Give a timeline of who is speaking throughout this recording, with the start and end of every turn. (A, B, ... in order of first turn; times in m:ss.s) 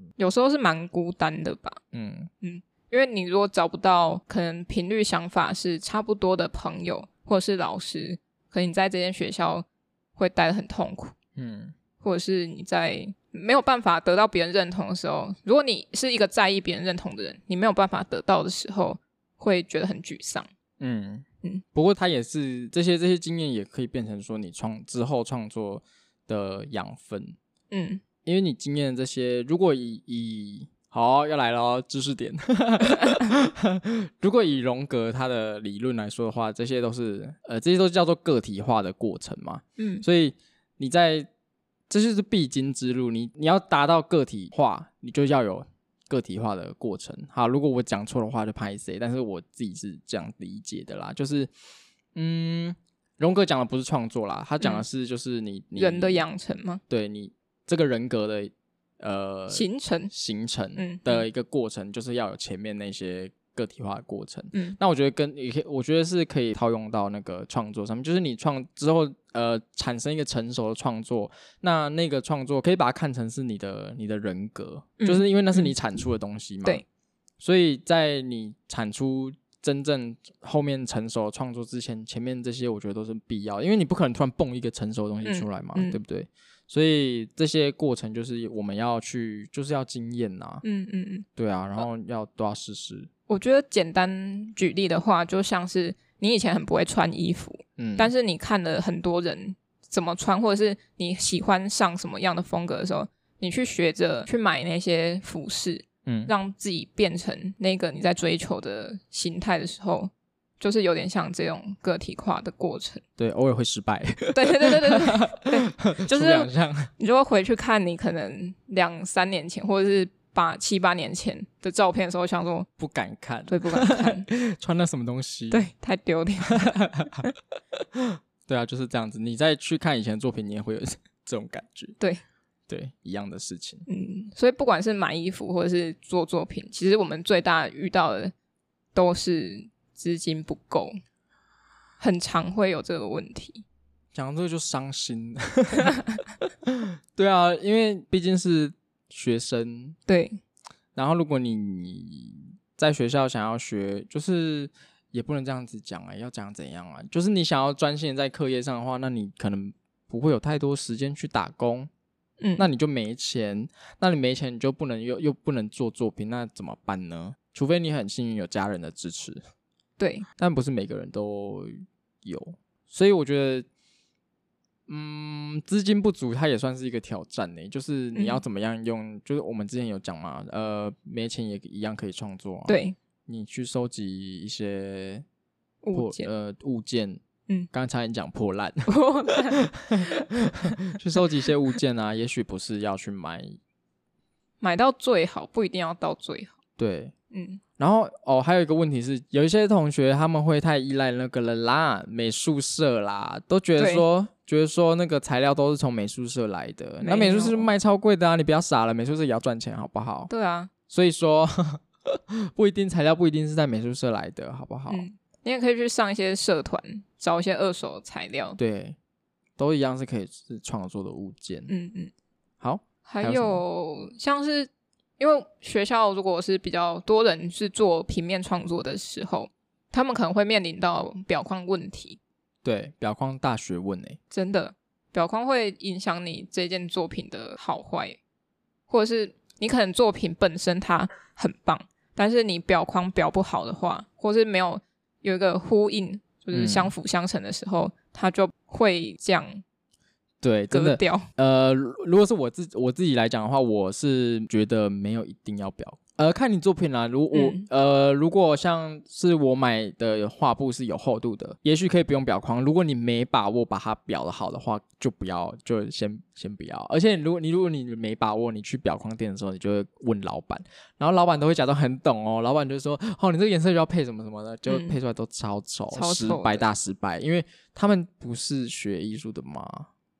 0:00.2-0:01.8 A
0:01.9-0:02.3 B
0:02.4-0:09.6 A
0:10.2-0:11.1 A
0:11.4-0:11.7 B
0:12.0-0:20.5 A
0:20.8-0:27.4 B
0:27.7-0:28.0 A
0:28.2-0:41.3 B
0:39.8-0:40.0 A
0:41.9-0:51.5 B
0:52.1-0:56.2 B
0:54.6-0:54.8 A
0:55.8-0:56.8 A
0:56.9-1:16.8 B
0:59.5-1:00.1 A
1:00.8-1:01.2 A
1:15.0-1:15.7 A
1:17.4-1:30.6 B
1:25.2-1:26.0 A
1:30.6-1:31.2 A
1:31.4-1:33.1 B
1:33.3-1:53.0 A
1:37.8-1:38.1 B
1:46.0-1:46.3 B
1:53.2-1:56.9 B
1:54.3-2:02.7 A
2:02.8-2:05.7 B
2:03.5-2:04.3 A
2:05.5-2:06.7 A
2:06.5-2:07.2 B
2:07.9-2:12.0 B
2:12.7-2:13.8 B
2:13.9-2:18.3 A
2:18.9-2:20.9 A
2:22.0-2:23.6 A
2:24.1-2:26.0 B
2:26.6-2:30.0 B
2:30.1-2:30.4 A
2:30.9-2:41.9 B
2:42.4-2:42.6 A
2:42.6-2:49.4 B
2:50.0-2:50.2 A
2:50.4-2:53.7 B
2:54.9-3:05.2 B
2:58.1-2:58.4 A
3:02.7-3:03.0 A
3:05.8-3:06.3 A
3:05.9-3:13.6 B
3:08.9-3:10.3 A
3:14.6-3:16.5 A
3:16.8-3:17.1 B
3:17.3-3:17.6 A
3:17.8-3:30.3 B
3:23.8-3:24.0 A
3:27.0-3:27.7 A
3:30.3-3:30.7 A
3:30.9-3:35.0 B
3:34.9-3:38.6 A
3:38.6-3:39.0 B
3:39.6-3:41.7 B
3:41.7-3:42.1 A
3:42.6-3:43.6 B
3:43.0-3:52.2 A
3:52.6-3:54.2 B
3:54.3-3:58.2 A
3:58.9-4:09.6 A
4:06.5-4:06.9 B
4:10.4-4:39.9 B
4:10.7-4:11.3 A
4:17.3-4:17.6 A
4:34.7-4:35.0 A
4:35.9-4:36.6 A